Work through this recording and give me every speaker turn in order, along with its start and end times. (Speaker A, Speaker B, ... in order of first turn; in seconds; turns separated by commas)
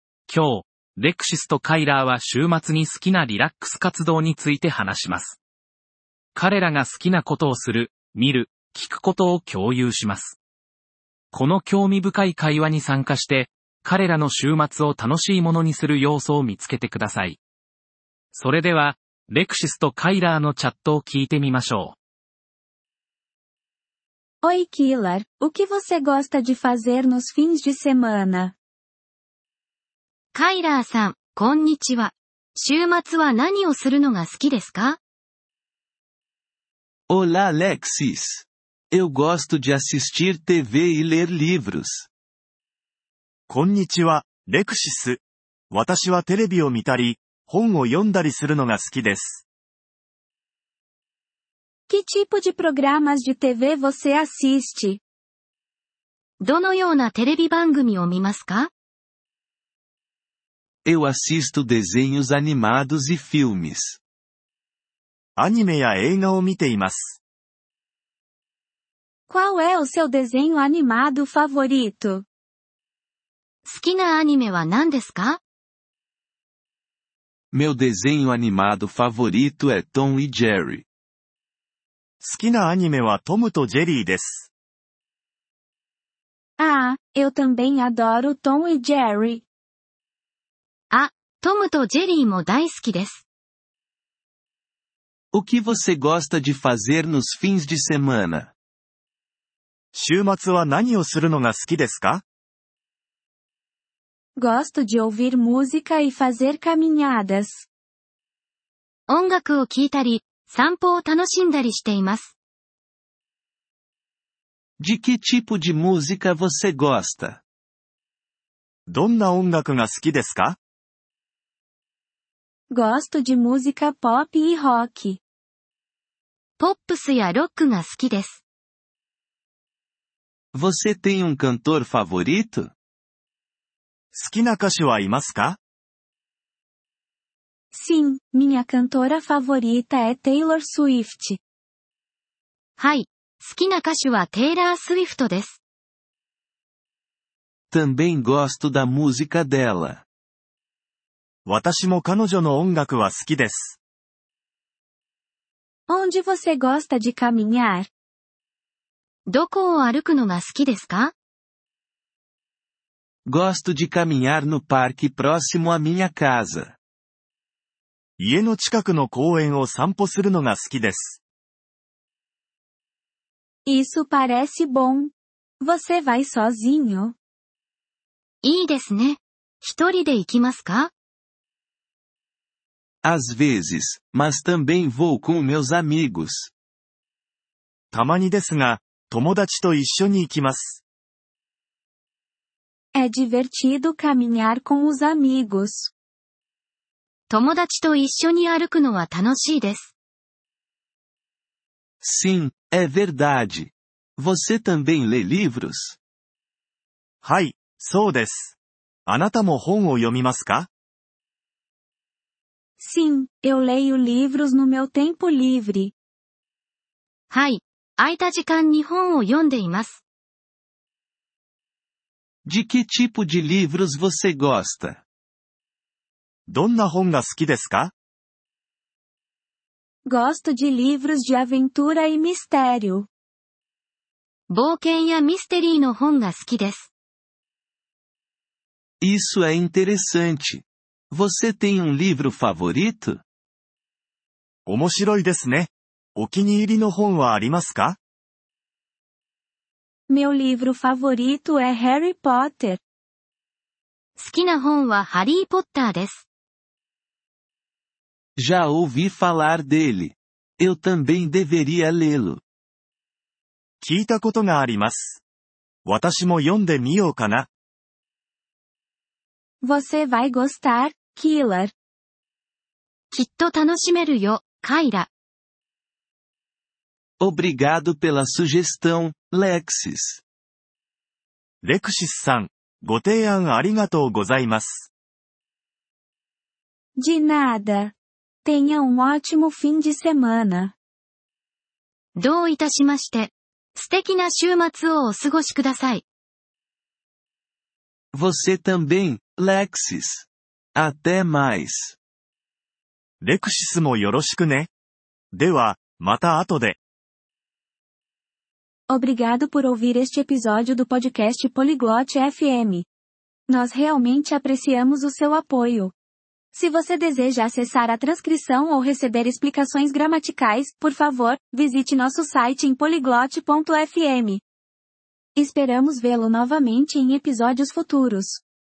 Speaker A: 0.3-5.4, Speaker A: 6.3-10.4, Speaker A: 11.3-17.4, Speaker A: 18.3-22.0, Speaker B: 24.4-28.6, Speaker C: 30.3-35.0, Speaker D: 37.1-42.1, Speaker E: 43.5-49.4, Speaker B: 51.9-55.0, Speaker C: 56.4-58.7, Speaker D: 60.9-64.0, Speaker E: 65.4-67.2, Speaker B: 69.3-72.3, Speaker C: 73.7-75.4, Speaker D: 77.5-80.8, Speaker E: 82.2-84.5, Speaker B: 86.6-89.5, Speaker C: 90.9-93.2, Speaker D: 95.3-98.5, Speaker E: 99.9-102.2, Speaker B: 104.4-107.7, Speaker C: 109.1-112.3, Speaker D: 114.8-117.4, Speaker E: 118.9-120.6, Speaker B: 122.7-125.2, Speaker C: 126.6-128.4, Speaker D: 130.5-132.7, Speaker E: 134.1-135.6, Speaker B: 137.7-141.4, Speaker C: 142.8-145.6, Speaker D: 147.7-150.0, Speaker E: 151.5-153.8, Speaker B: 155.9-157.9, Speaker C: 159.3-161.1, Speaker D: 163.3-166.8, Speaker E: 168.2-171.2, Speaker B: 173.7-177.2, Speaker C: 178.4-180.9, Speaker D: 183.0-186.5, Speaker E: 187.9-190.8, Speaker B: 192.9-195.9, Speaker C: 197.3-199.9, Speaker D: 202.0-206.0, Speaker E: 207.2-210.7, Speaker B: 212.8-215.9, Speaker C: 217.3-220.0, Speaker D: 222.5-225.0, Speaker E: 226.5-227.9, Speaker B: 230.1-233.1, Speaker C: 234.5-236.9, Speaker D: 239.0-243.2, Speaker E: 244.7-248.0, Speaker B: 250.1-252.8, Speaker C: 254.2-256.3, Speaker D: 258.4-262.4, Speaker E: 263.8-265.2, Speaker E: 265.9-267.5, Speaker B: 269.6-271.7, Speaker C: 273.1-275.1, Speaker D: 277.2-280.2, Speaker E: 281.6-284.9, Speaker B: 287.0-290.8, Speaker C: 292.2-296.0, Speaker D: 298.1-302.0, Speaker E: 303.2-304.7, Speaker E: 305.3-306.8, Speaker B: 308.9-312.9, Speaker B: 313.5-315.9, Speaker B: 316.5-324.4, Speaker B: 325.4-328.4